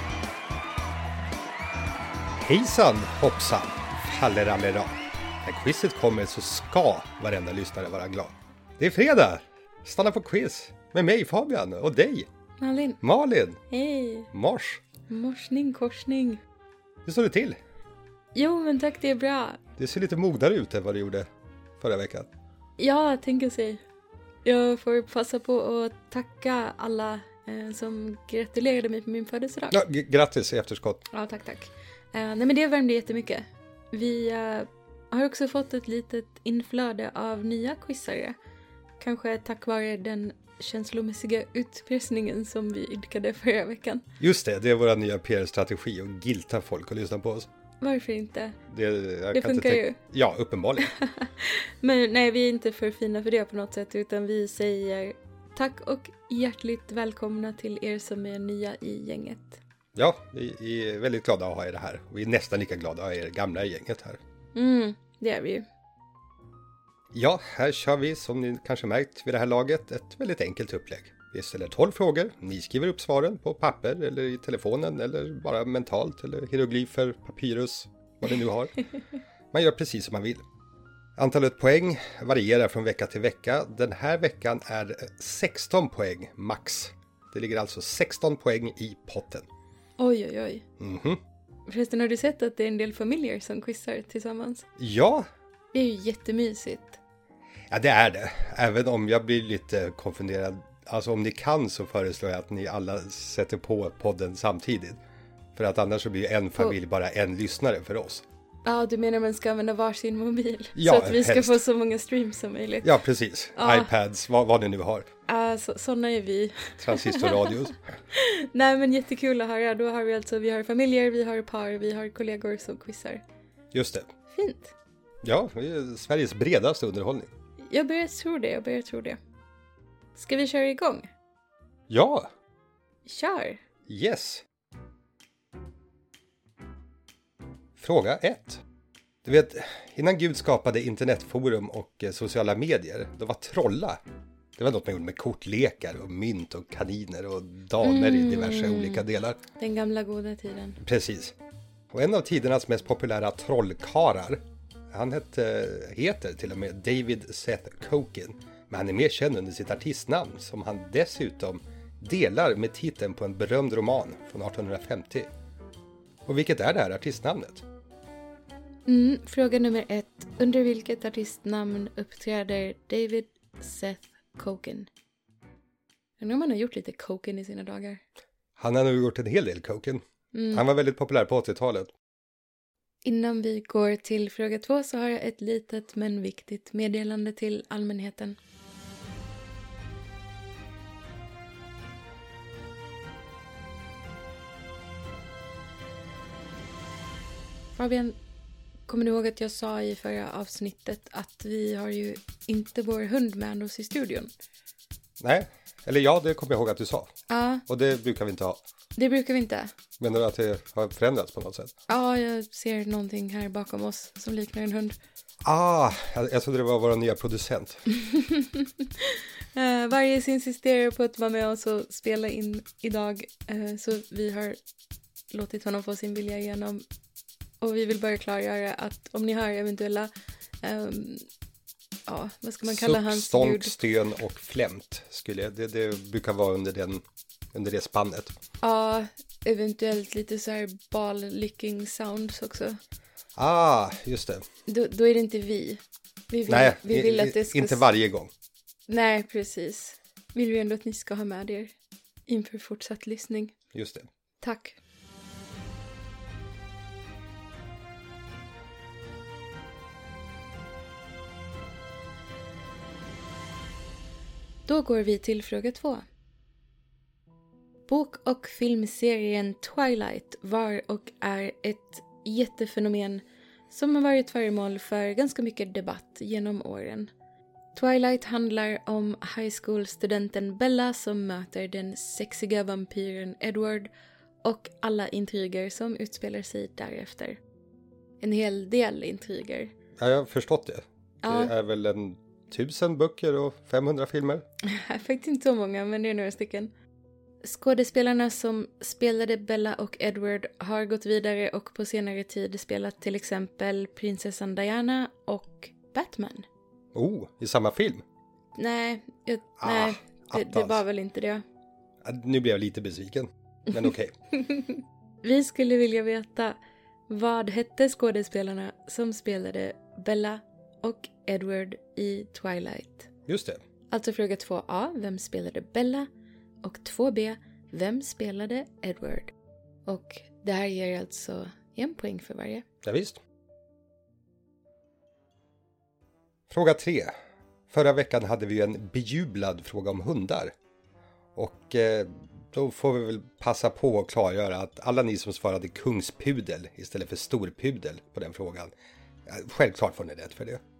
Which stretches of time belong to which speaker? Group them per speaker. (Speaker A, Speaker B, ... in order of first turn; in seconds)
Speaker A: 2.4-12.3, 13.0-13.6, 14.3-14.8, 17.1-17.6, 19.8-21.3, 21.8-22.3, 29.7-31.1, 44.2-47.5, 48.7-50.9, 60.0-64.2, 67.1-78.9, 79.5-80.4, 81.2-89.5, 90.8-91.2, 94.8-95.3, 97.7-105.0, 105.5-108.2, 110.8-111.6, 112.8-115.1, 116.8-117.8, 123.7-124.1, 125.2-127.3, 131.9-132.3, 133.9-134.4, 137.8-138.6, 139.2-144.0, 144.6-149.4, 150.8-151.3, 151.9-165.3, 166.3-167.6, 178.6-181.9, 205.2-207.2, 207.7-208.6, 210.0-211.7, 215.4-217.8, 232.7-238.3, 243.4-244.4, 246.5-248.3, 253.7-254.1, 290.0-294.4, 306.9-308.0, 309.6-310.8, 312.0-314.1, 323.3-323.6, 332.8-333.2, 336.5-337.1, 337.7-340.6, 341.4-348.7, 349.3-350.6
Speaker B: 12.6-13.0, 13.7-14.3, 15.1-16.4, 18.4-19.6, 22.8-23.8, 24.4-29.8, 31.1-38.4, 39.0-44.0, 47.8-48.6, 49.3-50.0, 50.8-59.6, 64.5-65.7, 90.0-90.6, 91.7-94.7, 95.7-97.0, 108.6-113.0, 113.5-113.9, 115.3-123.2, 124.3-124.7, 127.7-129.2, 130.2-131.1, 133.1-133.6, 147.8-149.0, 149.6-150.8, 168.9-174.9, 176.2-178.0, 180.3-180.7, 183.0-188.4, 197.8-198.2, 198.9-204.3, 207.3-207.6, 209.0-209.7, 211.9-215.0, 217.9-224.6, 225.3-226.8, 227.6-230.1, 230.6-231.3, 232.1-233.7, 238.6-242.8, 244.7-247.8, 248.9-251.7, 252.3-253.5, 254.4-254.8, 264.7-266.0, 267.9-277.1, 277.7-283.9, 284.4-287.4, 288.2-289.7, 291.2-291.5, 294.6-296.7, 297.4-306.5, 308.6-311.4, 314.4-316.6, 317.1-323.1, 323.9-326.1, 326.6-329.3, 329.9-332.6